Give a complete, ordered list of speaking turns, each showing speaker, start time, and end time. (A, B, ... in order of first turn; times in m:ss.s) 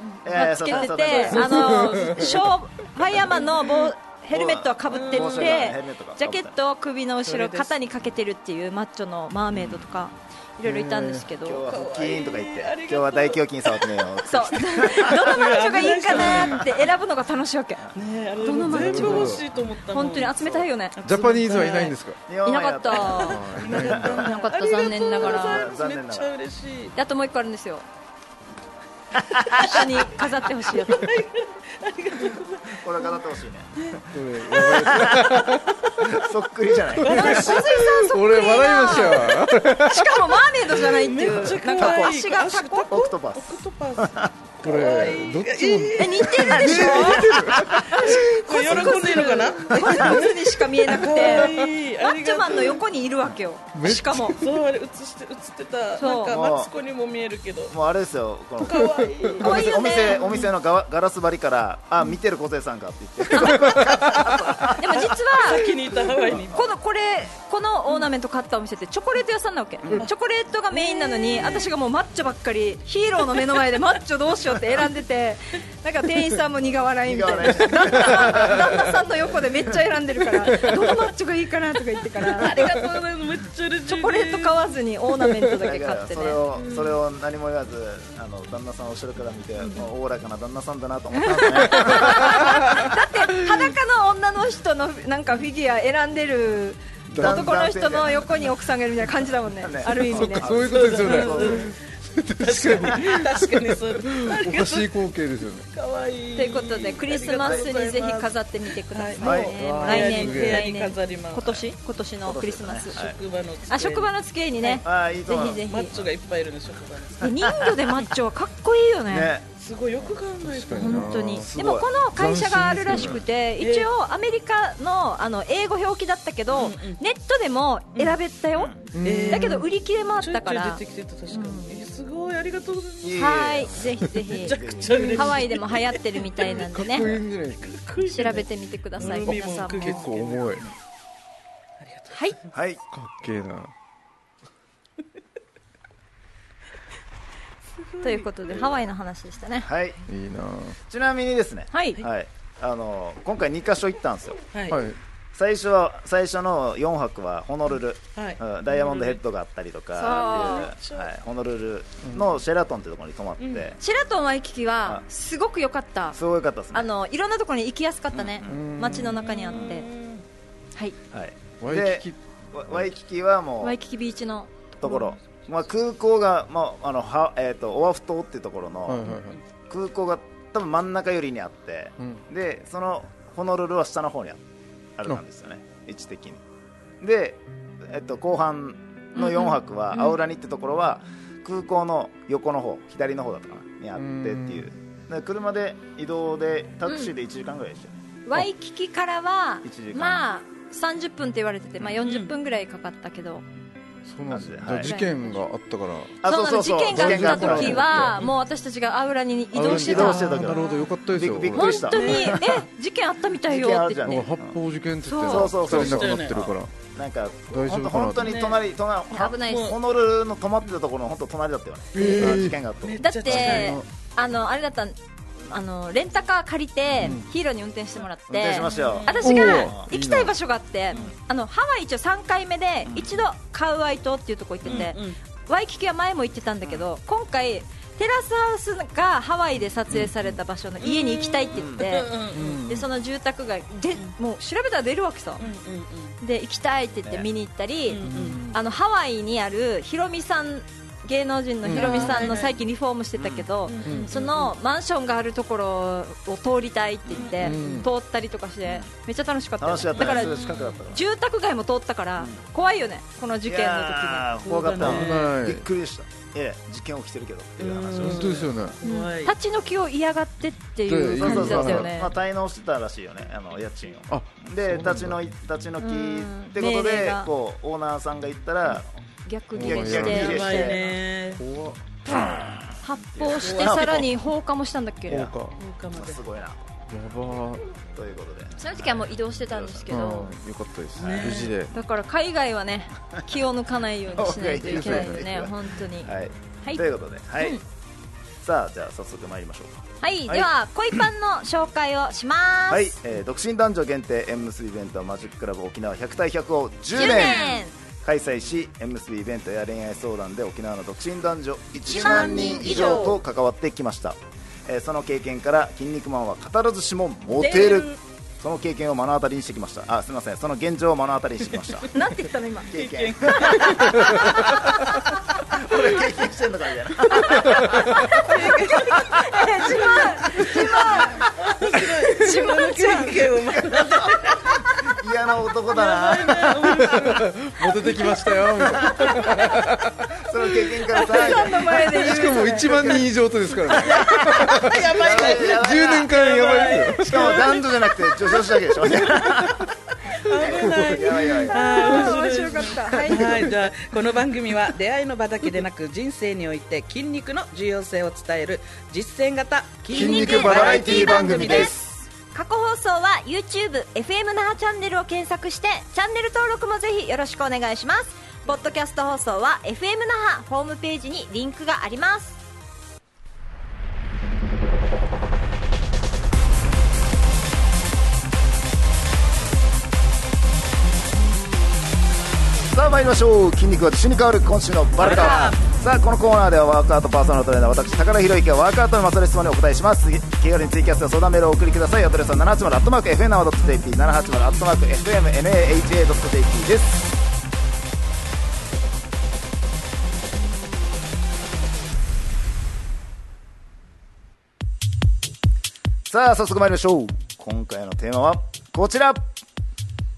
0:00.2-0:01.8 A
0:00.2-0:11.7 B
0:01.1-0:02.2 C
0:01.4-0:02.4 D
0:04.3-0:06.6 A
0:04.9-0:05.7 C
0:07.2-0:07.7 C
0:09.5-0:09.8 A
0:10.6-0:11.3 D
0:11.4-0:15.3 A
0:11.7-0:14.1 C
0:14.2-0:21.0 B
0:14.8-0:16.7 C
0:17.9-0:22.0 C
0:18.6-0:19.4 D
0:21.0-0:22.2 D
0:21.5-0:21.9 B
0:22.3-0:24.3 A
0:22.4-0:23.4 B
0:22.9-0:26.9 C
0:23.2-0:24.3 D
0:24.1-0:25.6 B
0:25.2-0:26.3 A
0:26.9-0:27.8 B
0:29.1-0:29.8 A
0:29.5-0:31.2 B
0:29.8-0:33.2 C
0:32.7-0:34.0 A
0:33.8-0:35.7 C
0:34.1-0:36.1 D
0:34.6-0:35.4 A
0:36.0-0:37.8 A
0:36.9-0:40.3 D
0:37.0-0:42.9 B
0:40.8-0:47.1 C
0:41.7-0:42.2 A
0:42.9-0:44.3 A
0:44.6-0:48.7 D
0:46.0-0:54.4 B
0:46.6-0:48.0 A
0:47.8-0:52.8 C
0:49.7-0:50.2 A
0:51.2-0:51.6 D
0:53.7-0:54.5 D
0:54.3-0:57.7 C
0:56.0-0:56.4 B
0:56.2-0:56.7 A
0:57.7-1:05.2 A
0:58.6-1:00.5 C
0:58.7-0:59.1 D
0:59.4-1:00.3 B
1:03.3-1:05.7 B
1:03.8-1:04.0 D
1:05.1-1:06.7 C
1:06.5-1:22.7 B
1:10.7-1:11.7 C
1:17.0-1:19.7 A
1:20.4-1:21.0 D
1:22.2-1:24.6 C
1:23.9-1:27.0 B
1:25.6-1:32.8 A
1:29.6-1:29.8 B
1:31.2-1:40.5 B
1:31.9-1:32.4 D
1:37.1-1:37.5 D
1:37.1-1:38.3 A
1:39.5-1:41.7 A
1:40.1-1:45.7 D
1:40.5-1:41.8 C
1:42.4-1:45.0 C
1:45.7-1:51.6 C
1:46.4-1:53.0 B
1:47.3-1:47.7 A
1:49.2-1:49.6 A
1:49.4-1:50.7 D
1:52.2-1:53.2 A
1:52.9-1:54.8 C
1:53.7-1:55.9 B
1:54.8-1:56.0 A
1:55.4-1:57.3 C
1:57.2-1:59.3 B
1:57.2-1:57.8 A
1:59.1-1:59.5 A
1:59.6-2:01.2 C
2:00.4-2:01.6 D
2:00.7-2:11.7 B
2:01.5-2:01.9 A
2:02.1-2:03.2 D
2:02.9-2:03.2 A
2:03.6-2:03.9 C
2:06.5-2:07.0 C
2:08.5-2:08.9 A
2:08.9-2:09.6 D
2:09.0-2:09.7 C
2:10.2-2:13.2 C
2:13.0-2:15.4 A
2:13.1-2:17.2 B
2:14.2-2:20.7 C
2:16.6-2:17.8 D
2:18.0-2:20.1 B
2:19.0-2:20.7 D
2:21.8-2:22.5 C
2:22.5-2:22.8 A
2:22.9-2:23.7 D
2:27.8-2:28.3 C
2:28.0-2:29.7 B
2:28.5-2:28.8 A
2:29.6-2:30.0 A
2:30.1-2:30.8 D
2:30.9-2:34.4 A
2:31.7-2:32.0 B
2:34.5-2:34.8 C
2:34.7-2:35.0 D
2:35.3-2:43.8 A
2:38.2-2:39.2 C
2:40.0-2:40.7 B
2:40.0-2:41.1 C
2:43.4-2:43.7 C
2:43.8-2:46.2 B
2:46.1-2:46.9 A
2:46.7-2:49.9 B
2:48.1-2:48.6 A
2:48.4-2:49.2 D
2:49.0-2:50.2 C
2:51.1-2:53.8 A
2:51.6-2:52.2 D
2:53.6-2:55.2 B
2:54.8-2:59.1 A
2:58.9-2:59.4 D
2:59.1-2:59.4 C
2:59.7-3:04.4 A
3:05.0-3:06.4 A
3:07.0-3:18.0 A
3:09.2-3:09.6 B
3:13.9-3:14.7 D
3:18.2-3:23.4 B
3:19.6-3:20.2 A
3:22.0-3:22.3 C
3:24.0-3:26.2 D
3:24.3-3:24.9 A
3:24.8-3:25.4 B
3:26.2-3:28.1 A
3:26.2-3:30.7 B
3:26.9-3:28.3 D
3:29.5-3:32.0 D
3:29.6-3:32.6 A
3:30.5-3:30.9 C
3:31.5-3:34.2 B
3:31.9-3:32.3 C
3:33.4-3:34.6 A
3:34.0-3:36.7 D
3:35.0-3:35.6 B
3:35.2-3:43.0 A
3:35.6-3:36.5 C
3:37.5-3:38.4 D
3:38.2-3:38.6 C
3:39.1-3:39.8 B
3:39.4-3:39.8 C
3:41.9-3:42.6 D
3:42.0-3:43.8 C
3:43.0-4:05.4 B
3:43.2-3:43.8 D
3:47.0-3:47.2 D
3:48.3-3:49.9 A
3:48.6-3:49.5 C
3:49.2-3:50.4 D
3:52.8-3:53.2 A
3:54.6-3:55.2 C
3:59.9-4:00.3 D
4:00.8-4:02.6 C
4:01.5-4:01.8 A
4:02.3-4:02.9 D
4:05.4-4:06.2 C
4:06.2-4:24.6 B
4:07.9-4:08.5 C
4:08.0-4:08.6 D
4:11.6-4:12.3 D
4:11.7-4:12.5 C
4:13.2-4:13.5 A
4:13.6-4:14.5 C
4:13.8-4:14.1 D
4:17.0-4:17.4 A
4:17.1-4:17.8 C
4:17.4-4:17.9 D
4:19.6-4:21.0 A
4:20.0-4:20.8 C
4:22.2-4:22.4 A
4:23.4-4:28.5 A
4:24.5-4:25.3 C
4:24.8-4:25.7 D
4:27.6-4:29.3 C
4:28.0-4:28.8 D
4:28.8-4:32.1 B
4:30.9-4:31.9 D
4:31.1-4:38.9 A
4:34.1-4:35.2 D
4:35.8-4:37.3 B
4:39.2-4:40.7 B
4:39.5-4:40.8 D
4:39.5-4:40.9 A
4:40.0-4:41.4 C
4:41.3-4:41.9 D
4:42.1-4:44.1 A
4:42.8-4:45.3 B
4:43.4-4:43.8 C
4:45.1-4:45.6 D
4:45.6-4:46.2 C
4:45.9-4:46.6 A
4:46.9-4:47.7 D
4:47.9-4:49.9 A
4:48.6-4:50.4 B
4:49.9-4:51.7 D
4:50.9-4:51.6 C
4:51.7-4:56.1 B
4:54.1-4:57.6 A
4:54.5-4:55.3 D
4:58.4-5:00.5 A
5:00.0-5:02.9 B
5:02.7-5:21.9 A
5:06.9-5:07.7 B
5:07.2-5:07.6 C
5:11.9-5:13.2 B
5:12.0-5:13.0 C
5:17.4-5:18.0 B
5:21.9-5:22.7 B
5:22.7-5:25.0 A
5:22.7-5:24.5 C
5:25.5-5:29.2 A
5:27.5-5:27.8 D
5:27.9-5:31.3 B
5:28.3-5:29.0 C
5:29.7-5:31.1 A
5:30.6-5:34.6 C
5:31.8-5:33.3 B
5:33.6-5:37.1 A
5:35.7-5:38.4 C
5:36.8-5:40.8 D
5:38.7-5:39.5 A
5:40.2-5:42.1 A
5:40.9-5:43.0 B
5:41.7-5:47.5 D
5:43.6-5:48.6 C
5:44.0-5:46.2 A
5:47.0-5:49.7 A
5:49.1-6:01.7 C
5:50.3-5:51.6 A
5:50.5-5:51.1 D
5:51.4-5:53.5 B
5:59.9-6:02.0 D
5:59.9-6:01.7 B
6:00.3-6:01.8 A
6:02.3-6:12.4 B
6:22.6-6:37.1 A
6:25.0-6:25.6 C
6:46.1-6:49.3 A